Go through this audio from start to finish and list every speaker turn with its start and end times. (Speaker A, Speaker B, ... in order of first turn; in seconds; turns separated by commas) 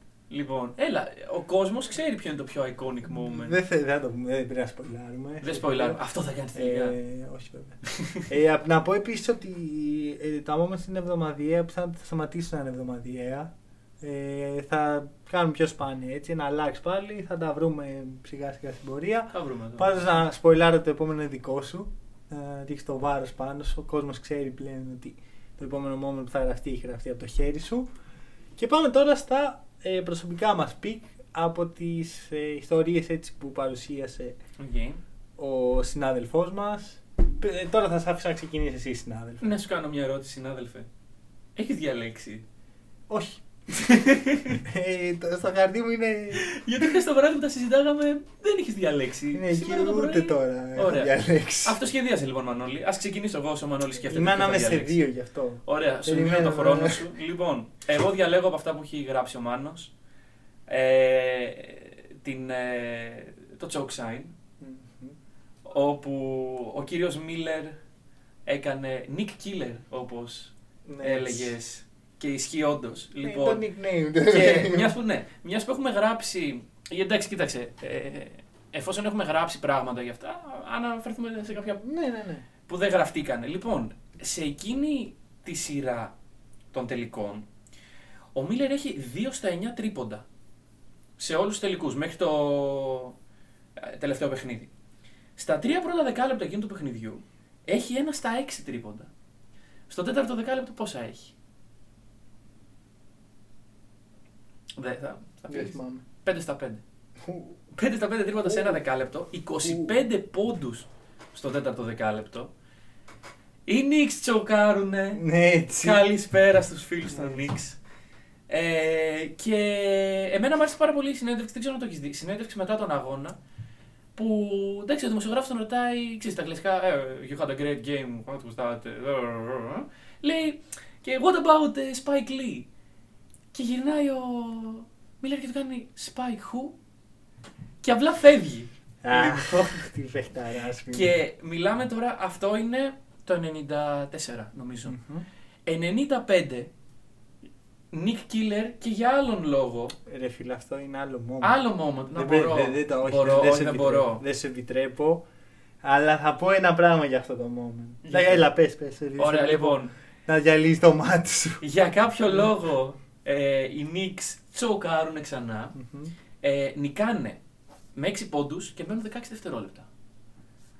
Speaker A: 0.3-3.6, Speaker B: 3.1-6.0, Speaker A: 5.4-7.0, Speaker B: 6.5-13.5, Speaker A: 8.0-8.2, Speaker B: 14.0-27.9, Speaker A: 19.3-20.2, Speaker B: 28.6-34.4, Speaker A: 34.6-35.0, Speaker B: 35.4-39.5, Speaker A: 39.4-40.9, Speaker A: 41.5-42.4, Speaker B: 43.1-43.9, Speaker A: 43.7-44.6, Speaker B: 44.5-46.9, Speaker A: 46.4-51.1, Speaker B: 49.3-51.8, Speaker A: 51.6-55.0, Speaker B: 54.1-57.0, Speaker A: 55.6-59.9, Speaker A: 60.7-64.3, Speaker B: 64.6-65.2, Speaker A: 65.6-67.8, Speaker A: 68.5-73.6, Speaker B: 70.9-71.5, Speaker B: 73.2-74.9, Speaker A: 74.2-81.8, Speaker B: 81.8-82.5, Speaker A: 82.7-86.1, Speaker A: 86.7-87.5, Speaker A: 88.3-90.2, Speaker A: 91.2-93.2, Speaker A: 93.8-94.7, Speaker A: 95.3-99.1, Speaker A: 99.9-101.3, Speaker A: 104.8-106.8, Speaker B: 105.5-106.0, Speaker B: 107.2-107.6, Speaker A: 107.7-112.5, Speaker B: 108.4-108.8, Speaker B: 109.6-109.9, Speaker A: 113.7-115.2, Speaker B: 115.1-116.0, Speaker A: 115.8-117.8, Speaker B: 117.1-117.4, Speaker A: 118.5-123.4, Speaker A: 124.1-132.7, Speaker A: 133.5-136.8, Speaker A: 137.8-139.8, Speaker B: 139.0-141.2, Speaker A: 140.9-144.9, Speaker B: 144.8-145.2, Speaker A: 145.7-146.7, Speaker A: 147.9-149.9, Speaker B: 150.1-151.6, Speaker A: 151.4-154.2, Speaker B: 152.1-155.2, Speaker B: 155.8-161.6, Speaker A: 158.0-158.4, Speaker A: 159.2-159.9, Speaker A: 161.6-165.7, Speaker B: 165.7-166.1, Speaker A: 166.4-167.4, Speaker A: 167.9-169.9